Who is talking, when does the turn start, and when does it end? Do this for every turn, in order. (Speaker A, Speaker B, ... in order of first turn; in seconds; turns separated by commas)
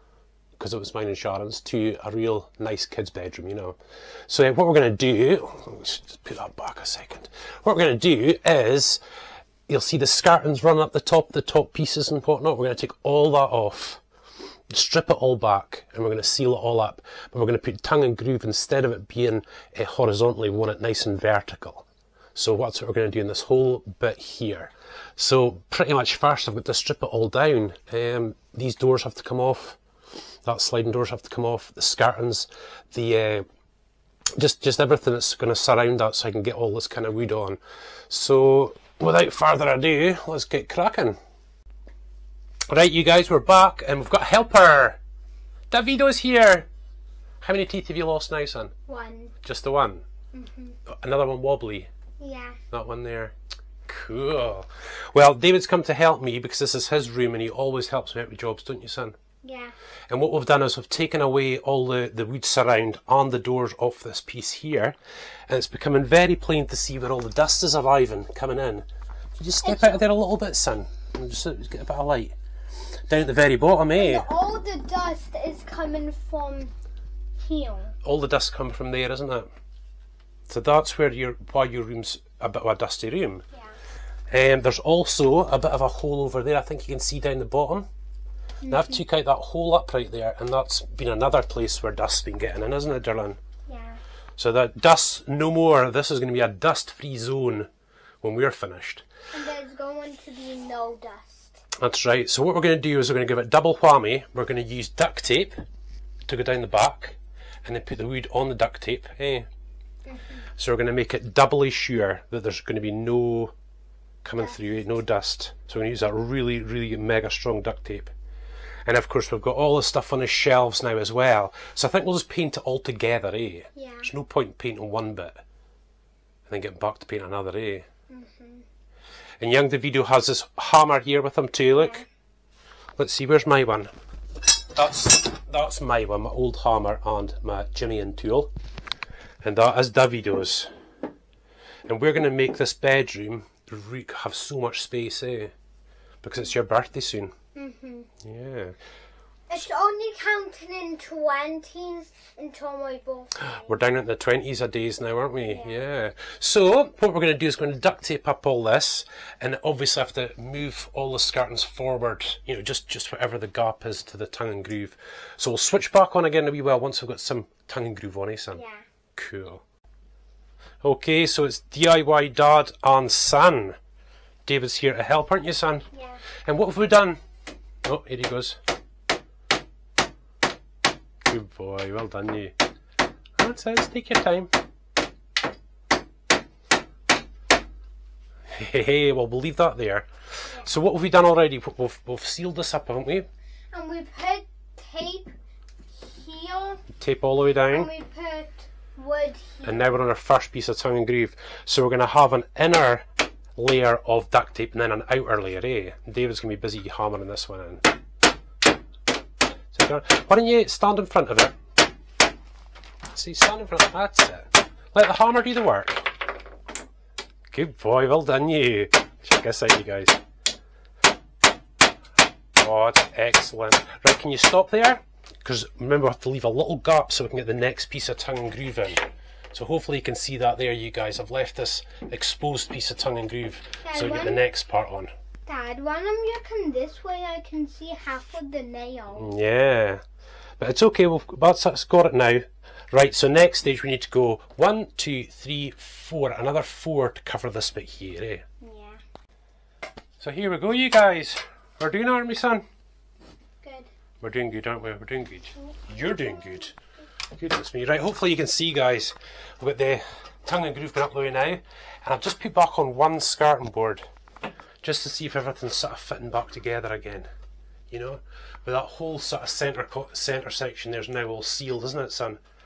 Speaker A: 0.6-9.0, Speaker A: 9.7-14.0, Speaker A: 14.7-29.8, Speaker A: 30.4-33.4, Speaker A: 34.4-41.2, Speaker A: 42.7-45.0, Speaker A: 45.7-46.7, Speaker A: 47.4-48.7, Speaker B: 48.9-49.3, Speaker A: 49.4-50.0, Speaker B: 50.3-50.8, Speaker A: 50.9-51.9, Speaker B: 52.2-52.6, Speaker A: 52.7-53.3, Speaker A: 53.9-59.1, Speaker B: 59.4-59.7, Speaker A: 60.1-65.0, Speaker A: 65.5-72.3, Speaker B: 69.6-70.0, Speaker A: 73.1-74.3, Speaker B: 73.9-76.7, Speaker B: 77.4-77.9, Speaker A: 78.0-79.5, Speaker A: 80.5-83.4, Speaker A: 84.3-87.9, Speaker B: 88.6-89.0, Speaker A: 88.7-93.4, Speaker B: 93.7-94.0, Speaker A: 94.4-97.7, Speaker A: 98.2-99.0, Speaker B: 99.3-101.6, Speaker A: 101.8-105.5, Speaker A: 106.2-109.5, Speaker B: 110.0-110.5, Speaker A: 110.6-113.5, Speaker A: 114.2-118.1, Speaker A: 118.8-125.4, Speaker B: 123.7-124.1, Speaker A: 126.5-127.8, Speaker B: 128.1-128.6, Speaker A: 129.4-132.1, Speaker B: 131.8-132.1, Speaker A: 133.0-133.9, Speaker A: 134.7-138.5, Speaker A: 139.4-140.7, Speaker A: 141.8-145.5, Speaker A: 146.2-147.3, Speaker B: 147.5-148.1, Speaker A: 148.2-148.8, Speaker B: 149.5-153.7, Speaker A: 153.4-168.6, Speaker B: 155.4-155.8, Speaker B: 168.5-168.8, Speaker A: 169.2-169.6, Speaker A: 170.8-173.8, Speaker A: 174.4-175.8, Speaker B: 175.9-176.2, Speaker A: 176.4-177.2, Speaker A: 177.8-178.6, Speaker A: 181.3-182.5, Speaker A: 183.4-184.5, Speaker A: 188.5-193.3, Speaker B: 193.7-195.3, Speaker B: 195.9-196.8, Speaker A: 196.9-197.9, Speaker B: 197.6-199.8, Speaker A: 199.6-207.8, Speaker A: 209.7-211.6, Speaker A: 213.1-216.1, Speaker A: 217.5-220.2, Speaker A: 222.6-235.1, Speaker B: 233.8-234.4, Speaker B: 235.4-239.3, Speaker A: 239.1-240.0, Speaker A: 240.6-248.4, Speaker B: 248.6-249.0, Speaker A: 250.2-252.6, Speaker B: 253.6-253.9, Speaker A: 254.2-256.7, Speaker A: 257.3-264.0, Speaker A: 264.8-267.3, Speaker A: 267.9-272.4